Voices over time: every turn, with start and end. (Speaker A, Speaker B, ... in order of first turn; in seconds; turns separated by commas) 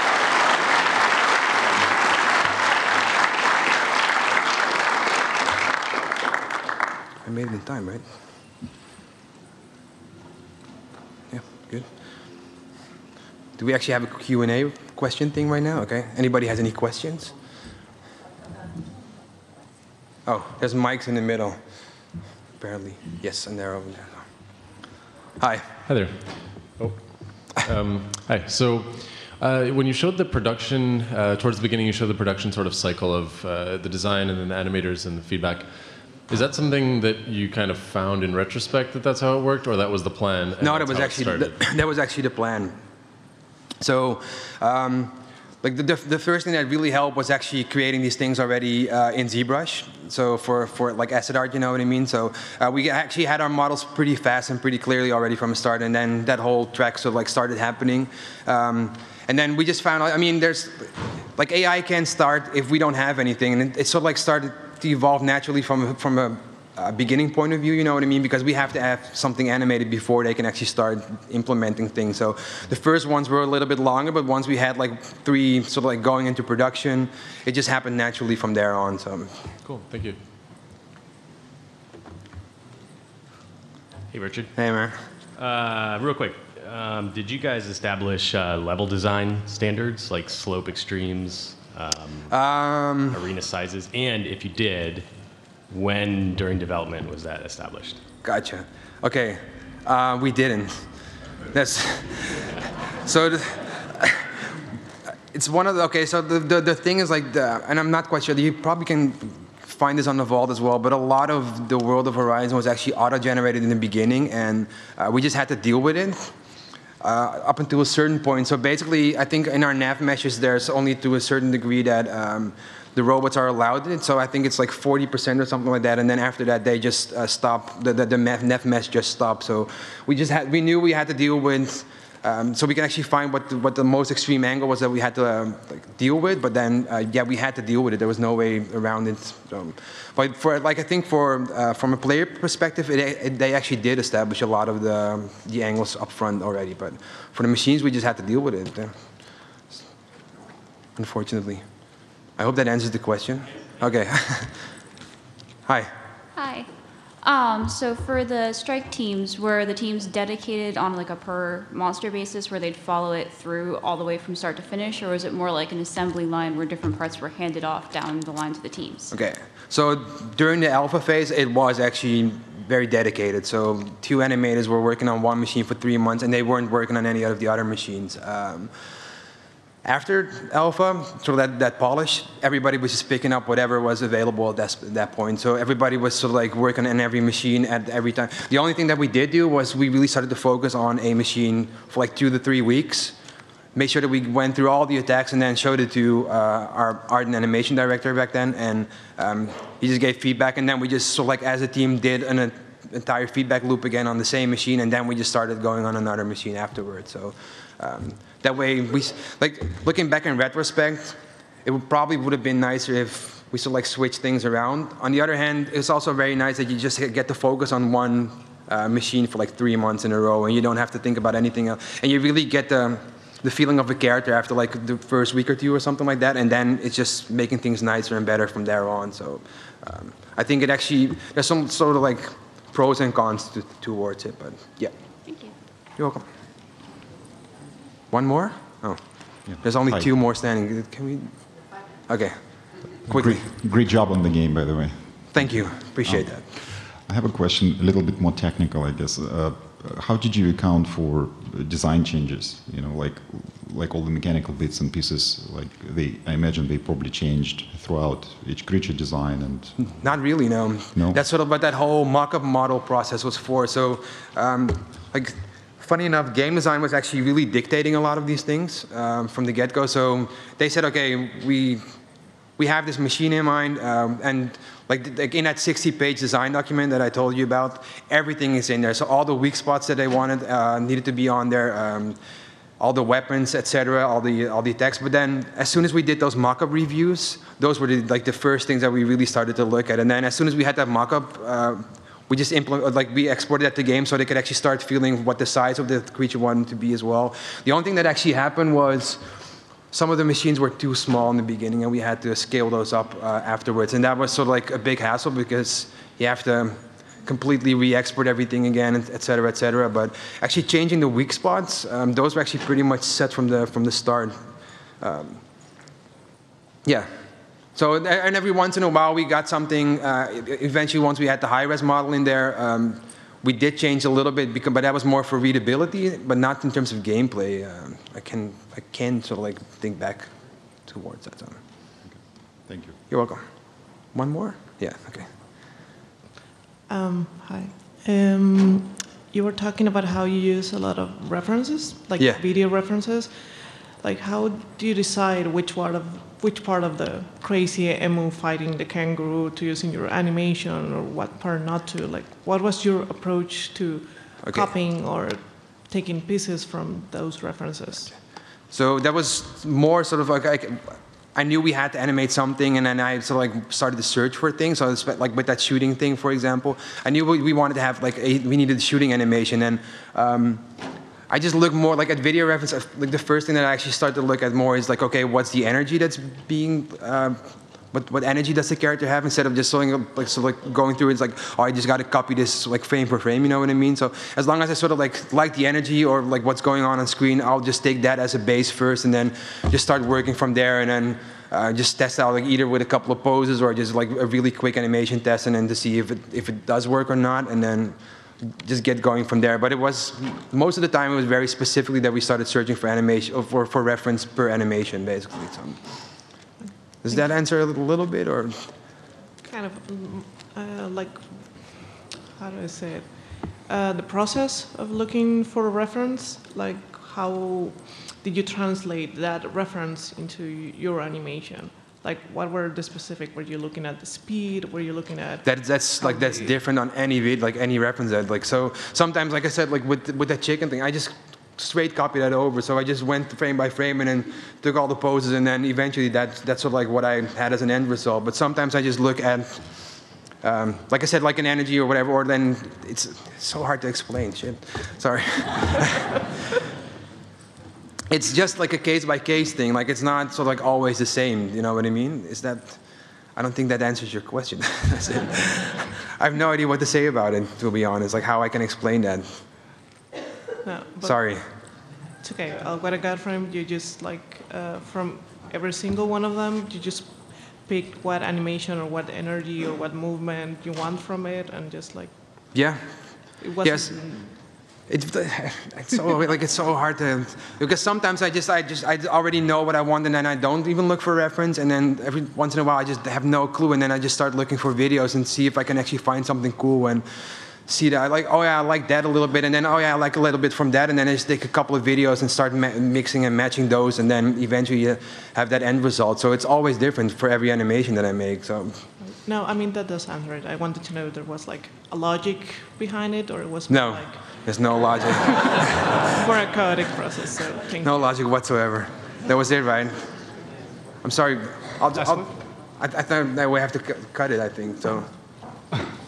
Speaker A: 7.2-8.0, Speaker A: 11.3-11.9, Speaker A: 13.6-17.3, Speaker A: 20.3-21.6, Speaker A: 22.6-24.3, Speaker A: 25.4-25.7, Speaker B: 25.8-41.7, Speaker A: 40.6-42.8, Speaker A: 43.8-79.3, Speaker B: 79.6-80.2, Speaker C: 84.1-84.5, Speaker A: 84.5-85.0, Speaker C: 85.4-92.3, Speaker A: 92.3-93.2, Speaker C: 93.1-95.1, Speaker C: 95.7-98.0, Speaker A: 98.2-100.9, Speaker A: 101.5-104.4, Speaker A: 105.3-116.3, Speaker A: 117.0-148.9, Speaker A: 151.0-151.6, Speaker A: 152.4-154.6, Speaker A: 155.7-155.9, Speaker D: 156.3-156.7, Speaker D: 157.2-169.1, Speaker A: 169.1-178.7, Speaker A: 179.8-193.1, Speaker A: 193.7-235.0, Speaker D: 235.3-235.5, Speaker A: 235.9-236.3, Speaker A: 238.1-243.4, Speaker E: 239.4-240.1, Speaker E: 243.1-260.1, Speaker A: 245.3-246.4, Speaker A: 259.8-271.8, Speaker E: 260.9-261.2, Speaker A: 272.6-282.2, Speaker A: 282.8-299.2, Speaker A: 299.9-314.4, Speaker A: 315.0-315.4, Speaker A: 316.8-317.1, Speaker A: 317.7-330.3, Speaker A: 330.8-331.6, Speaker E: 332.1-333.0, Speaker A: 333.1-333.5, Speaker A: 334.1-335.3, Speaker F: 336.9-358.2, Speaker A: 354.4-354.7, Speaker A: 358.7-370.7, Speaker A: 371.3-377.4, Speaker A: 377.9-406.0, Speaker F: 406.6-407.2, Speaker A: 407.0-408.7, Speaker F: 409.4-426.5, Speaker A: 425.4-439.7, Speaker A: 440.4-446.2, Speaker A: 448.1-452.8, Speaker A: 453.4-459.4, Speaker F: 460.6-461.2, Speaker A: 461.0-461.4, Speaker F: 462.2-472.6, Speaker A: 472.5-474.4, Speaker F: 473.4-474.3, Speaker A: 474.9-487.1, Speaker A: 487.7-498.9, Speaker F: 499.0-504.5, Speaker A: 503.7-506.0, Speaker F: 505.3-508.1, Speaker A: 507.8-510.1, Speaker A: 511.0-515.1